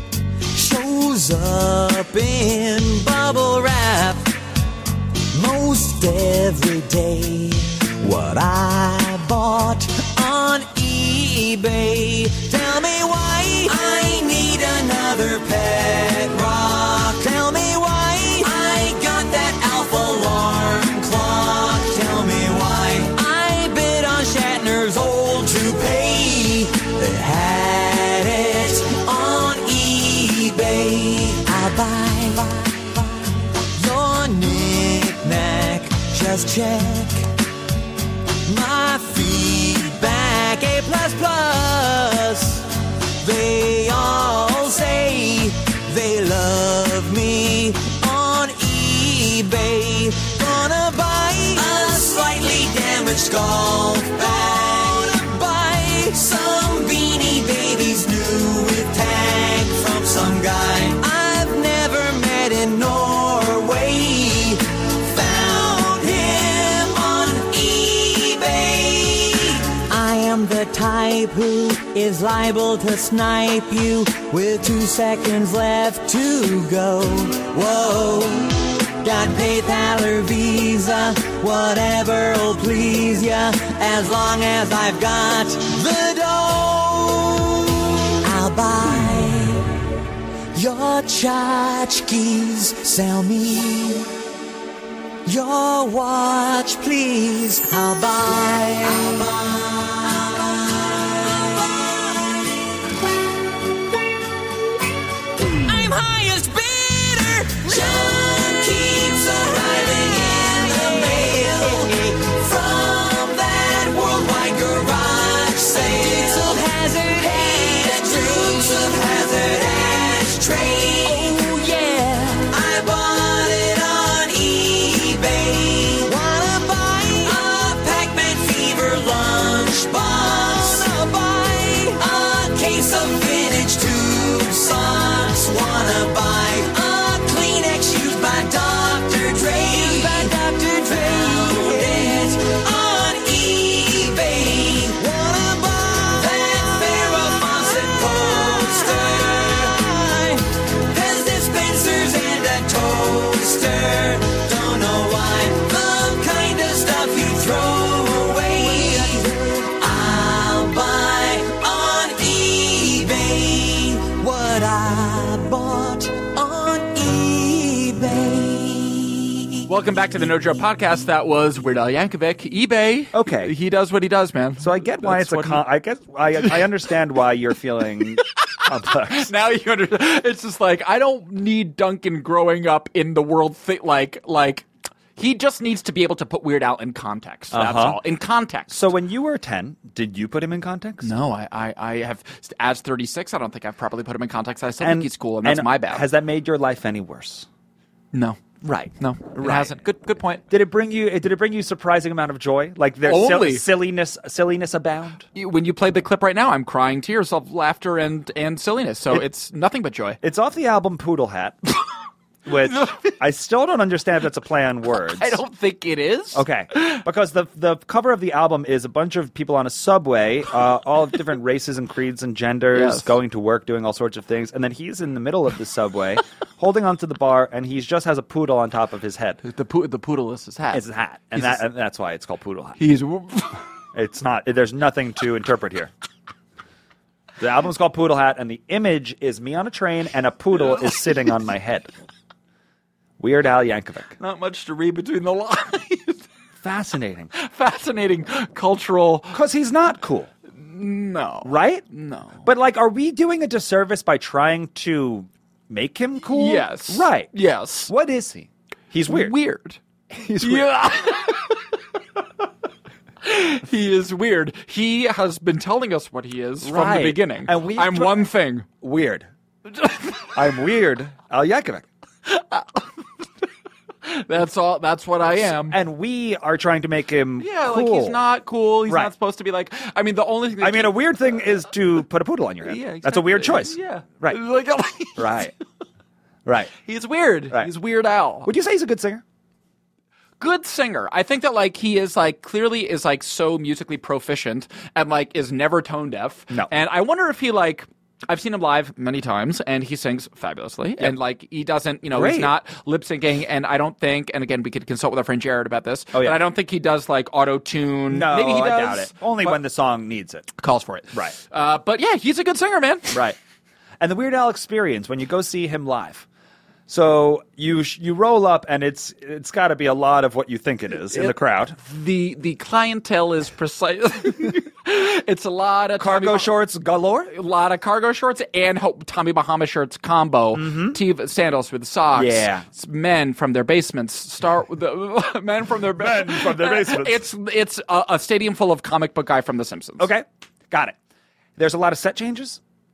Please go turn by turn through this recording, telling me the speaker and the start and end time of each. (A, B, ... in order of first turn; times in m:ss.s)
0:00.5-0:04.4 A
0:05.3-0:37.3 A
0:38.4-1:29.8 A
1:30.5-1:34.1 A
1:35.2-1:42.8 A
1:45.4-2:49.5 A
2:49.7-2:55.6 B
2:53.1-2:53.5 C
2:54.6-2:59.3 C
2:58.2-3:08.9 B
3:07.5-3:08.0 C
3:08.7-3:11.1 C
3:11.0-3:16.0 B
3:14.8-3:17.5 C
3:18.1-3:18.4 B
3:18.6-3:19.8 C
3:19.0-3:20.4 B
3:20.5-3:25.2 C
3:23.0-3:23.6 B
3:25.3-3:30.2 B
3:30.2-3:31.6 C
3:32.4-3:35.4 C
3:32.6-3:33.2 B
3:35.0-3:37.0 B
3:36.4-3:49.4 C
3:42.7-3:43.2 B
3:49.4-3:51.6 B
3:50.7-3:52.8 C
3:52.8-3:53.6 B
3:53.9-3:55.9 C
3:57.4-4:01.9 C
4:03.2-4:04.1 C
4:04.2-4:06.3 B
4:06.6-4:07.3 C
4:07.3-4:09.4 B
4:09.3-4:10.3 C
4:10.5-4:12.4 B
4:11.4-4:11.8 C
4:12.4-4:17.3 C
4:16.3-4:17.9 B
4:17.9-4:19.4 C
4:19.1-4:19.8 B
4:20.1-4:20.7 C
4:20.4-4:21.6 B
4:23.2-4:28.7 B
4:26.6-4:28.3 C
4:28.8-4:29.3 C
4:29.8-4:30.3 B
4:30.3-4:31.9 C
4:32.3-4:32.8 B
4:34.0-4:35.8 B
4:35.4-4:38.2 C
4:37.4-4:41.5 B
4:40.6-4:44.4 C
4:42.6-4:45.5 B
4:45.2-4:45.5 C
4:46.4-4:46.7 C
4:46.8-4:48.5 B
4:48.4-4:49.2 C
4:50.4-5:09.6 B
5:02.1-5:02.5 C
5:06.1-5:06.4 C
5:08.1-5:10.5 C
5:10.6-5:13.2 B
5:14.0-5:16.3 C
5:16.9-5:21.8 C
5:21.1-5:26.5 B
5:26.0-5:27.3 C
5:27.3-5:40.1 B
5:30.5-5:31.0 C
5:32.1-5:32.6 C
5:36.0-5:37.2 C
5:40.0-5:41.0 C
5:41.6-5:42.6 C